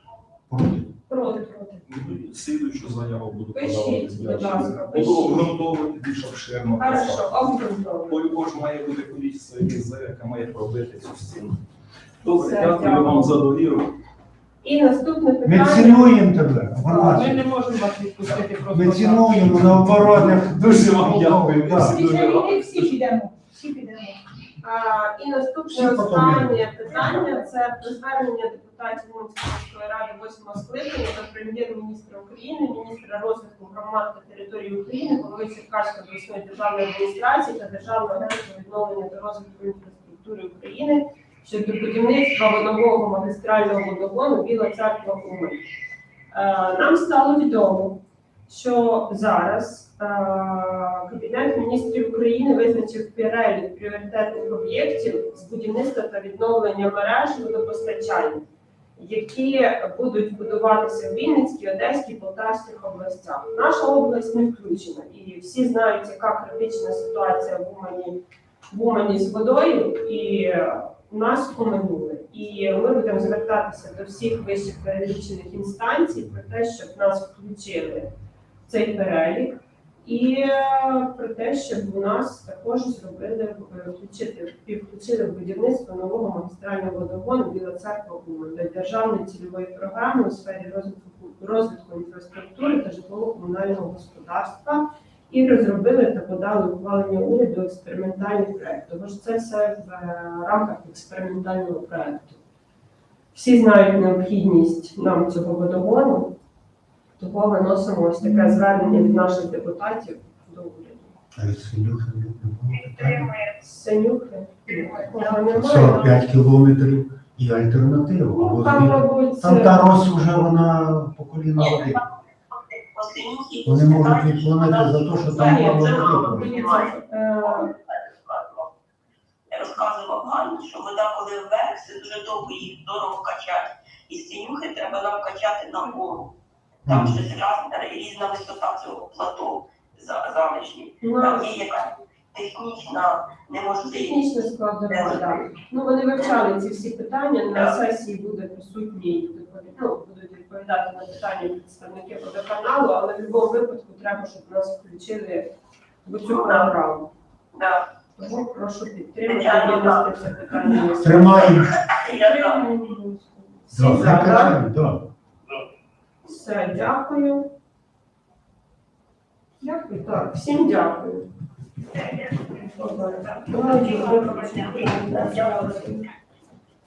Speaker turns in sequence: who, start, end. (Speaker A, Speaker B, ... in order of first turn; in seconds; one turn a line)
Speaker A: 0.5-0.9
Speaker B: 1.1-1.8
Speaker C: 1.9-7.4
Speaker B: 3.5-5.5
Speaker B: 6.8-8.3
Speaker C: 8.1-11.6
Speaker C: 12.2-13.9
Speaker B: 12.2-13.3
Speaker B: 14.6-16.2
Speaker A: 15.4-17.5
Speaker B: 16.8-17.2
Speaker D: 17.1-19.2
Speaker A: 18.7-22.0
Speaker C: 19.9-23.0
Speaker D: 21.8-24.2
Speaker B: 24.6-45.6
Speaker A: 25.7-27.1
Speaker B: 46.3-58.4
Speaker B: 59.0-78.1
Speaker B: 78.7-102.4
Speaker B: 103.3-106.3
Speaker B: 107.2-111.1
Speaker A: 111.3-113.3
Speaker B: 113.6-116.2
Speaker A: 115.5-122.0
Speaker B: 118.3-120.0
Speaker E: 121.6-122.0
Speaker E: 122.5-128.7
Speaker A: 123.6-126.6
Speaker B: 125.3-127.7
Speaker E: 129.5-136.3
Speaker A: 136.9-137.2
Speaker E: 136.9-144.2
Speaker B: 141.0-141.6
Speaker B: 143.8-155.5
Speaker E: 144.9-145.4
Speaker E: 147.5-147.8
Speaker B: 156.0-157.1
Speaker E: 156.2-156.7
Speaker E: 157.5-157.8
Speaker B: 158.2-164.6
Speaker E: 159.2-160.6
Speaker A: 161.0-161.8
Speaker E: 161.9-162.7
Speaker A: 163.7-165.1
Speaker B: 166.2-167.5
Speaker B: 169.6-171.3
Speaker B: 172.5-176.0
Speaker E: 173.2-175.8